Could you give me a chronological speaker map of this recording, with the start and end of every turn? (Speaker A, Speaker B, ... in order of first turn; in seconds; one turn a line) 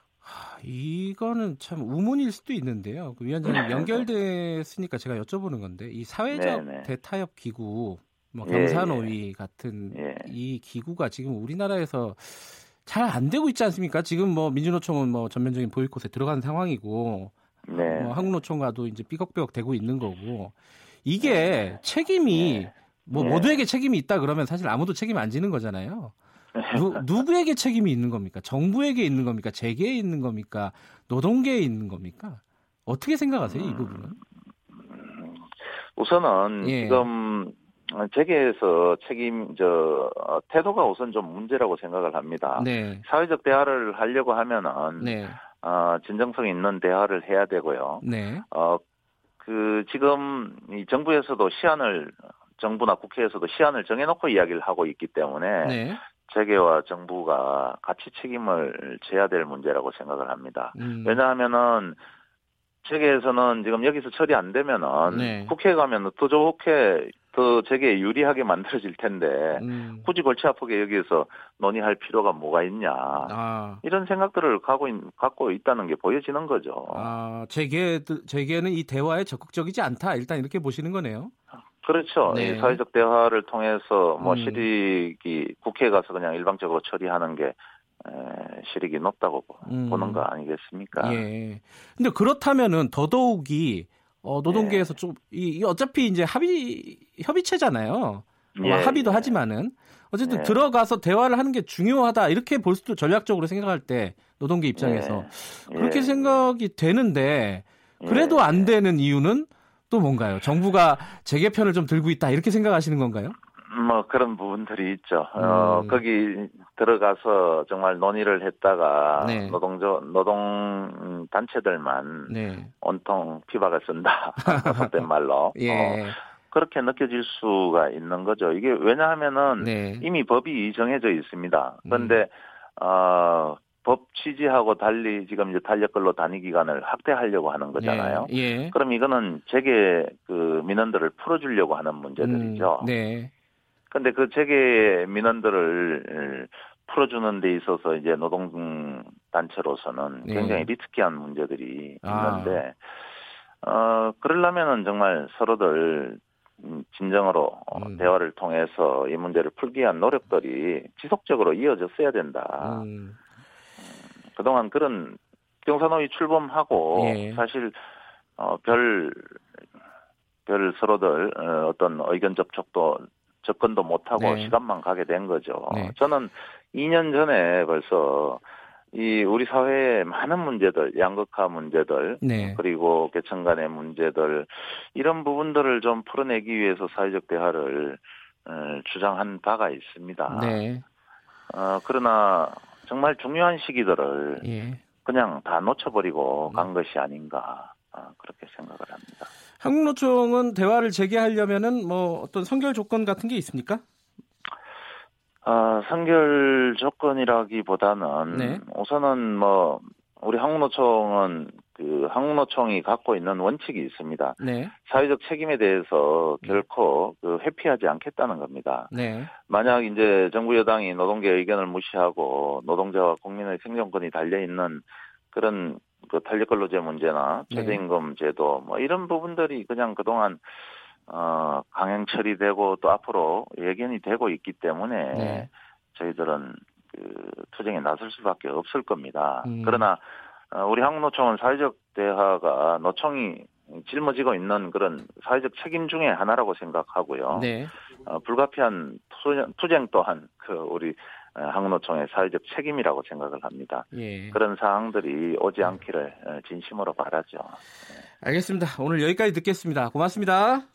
Speaker A: 0.2-26.1
Speaker B: 3.4-4.0
Speaker B: 6.3-6.9
Speaker B: 8.4-9.2
Speaker B: 9.9-10.3
Speaker B: 17.7-18.4
Speaker B: 21.2-21.8
Speaker B: 22.3-23.6
Speaker B: 26.6-27.1
Speaker A: 26.7-34.2
Speaker B: 33.5-34.2
Speaker B: 34.8-48.8
Speaker A: 36.6-37.1
Speaker A: 42.5-43.0
Speaker A: 45.0-45.4
Speaker A: 48.0-48.5
Speaker B: 49.4-62.0
Speaker A: 55.6-56.0
Speaker A: 60.7-61.2
Speaker B: 62.8-77.1
Speaker A: 65.1-65.5
Speaker A: 69.5-70.1
Speaker A: 73.2-73.8
Speaker A: 76.9-81.3
Speaker B: 81.8-91.3
Speaker A: 82.3-82.8
Speaker A: 84.2-84.7
Speaker A: 89.7-90.3
Speaker A: 91.0-113.4
Speaker B: 94.5-95.0
Speaker B: 98.5-99.4
Speaker B: 100.2-100.7
Speaker B: 104.8-106.5
Speaker B: 108.0-108.8
Speaker B: 113.6-142.9
Speaker A: 115.4-116.0
Speaker A: 119.2-119.6
Speaker A: 122.3-122.7
Speaker A: 124.4-125.0
Speaker A: 125.5-126.2
Speaker A: 129.6-130.1
Speaker A: 131.9-132.2
Speaker A: 137.8-138.8
Speaker A: 142.2-143.3
Speaker B: 143.9-153.0
Speaker A: 150.2-150.7
Speaker A: 152.0-152.6
Speaker B: 153.6-162.9
Speaker A: 157.7-158.1
Speaker A: 162.6-163.2
Speaker B: 163.9-167.8
Speaker A: 166.9-167.4
Speaker B: 168.4-169.4
Speaker B: 170.5-190.6
Speaker A: 174.2-174.6
Speaker A: 175.7-176.0
Speaker A: 182.2-182.6
Speaker A: 190.3-190.8
Speaker B: 191.5-194.5
Speaker A: 194.4-194.8
Speaker B: 195.0-199.3
Speaker A: 199.6-203.8
Speaker B: 205.4-257.6
Speaker A: 208.3-208.6
Speaker A: 214.4-214.7
Speaker A: 218.9-219.3
Speaker A: 227.5-227.8
Speaker A: 235.1-235.5
Speaker A: 239.4-239.9
Speaker A: 247.3-247.7
Speaker A: 253.9-254.4
Speaker A: 258.2-260.7